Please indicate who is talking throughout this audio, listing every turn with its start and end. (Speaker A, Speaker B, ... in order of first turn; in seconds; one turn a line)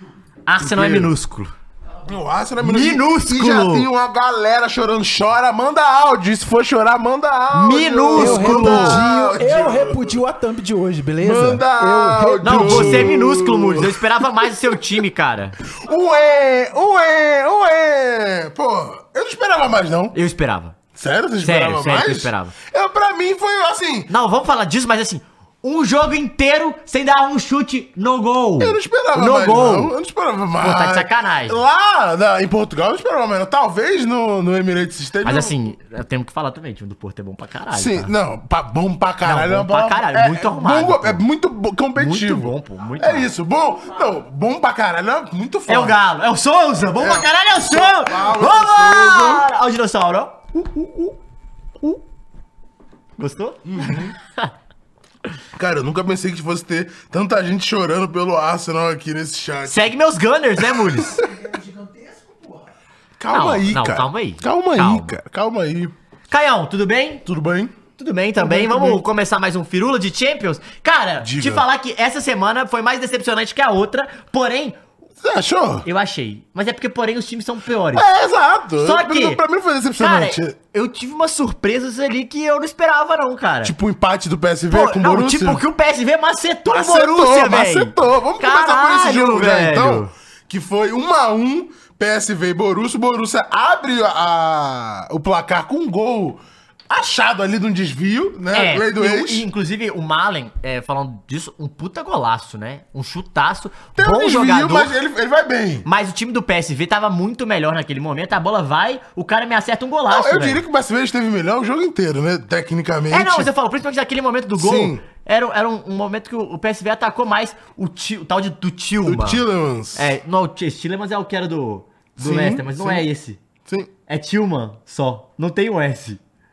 Speaker A: 0.5-1.5
Speaker B: 0.6-1.1
Speaker B: 2.0-10.1
Speaker A: 2.6-3.9
Speaker A: 7.5-9.0
Speaker C: 8.2-13.2
Speaker B: 11.2-14.8
Speaker A: 12.4-15.6
Speaker B: 15.7-20.1
Speaker A: 20.1-20.8
Speaker B: 20.9-24.1
Speaker A: 21.4-22.6
Speaker A: 24.1-29.9
Speaker B: 28.6-35.6
Speaker A: 30.6-31.6
Speaker A: 35.2-38.1
Speaker B: 37.7-46.0
Speaker A: 39.2-41.2
Speaker A: 42.0-43.3
Speaker A: 45.7-51.2
Speaker B: 47.0-49.5
Speaker A: 53.2-54.5
Speaker B: 53.6-54.1
Speaker B: 55.5-59.9
Speaker A: 59.6-61.2
Speaker B: 60.6-61.3
Speaker C: 61.2-62.6
Speaker B: 63.2-65.9
Speaker A: 63.3-65.2
Speaker A: 66.3-67.2
Speaker B: 67.2-67.7
Speaker A: 68.0-74.8
Speaker B: 68.4-69.0
Speaker B: 71.2-71.7
Speaker B: 75.2-75.9
Speaker A: 75.8-78.0
Speaker B: 77.9-80.5
Speaker A: 78.8-79.4
Speaker A: 80.0-83.7
Speaker B: 83.6-85.6
Speaker A: 84.7-90.1
Speaker B: 86.7-99.5
Speaker A: 98.5-104.9
Speaker B: 104.0-105.8
Speaker A: 105.8-110.6
Speaker B: 110.1-113.5
Speaker A: 113.1-119.4
Speaker B: 114.5-115.0
Speaker B: 119.0-120.1
Speaker A: 119.9-123.4
Speaker B: 122.2-123.0
Speaker B: 123.6-123.9
Speaker A: 124.1-126.2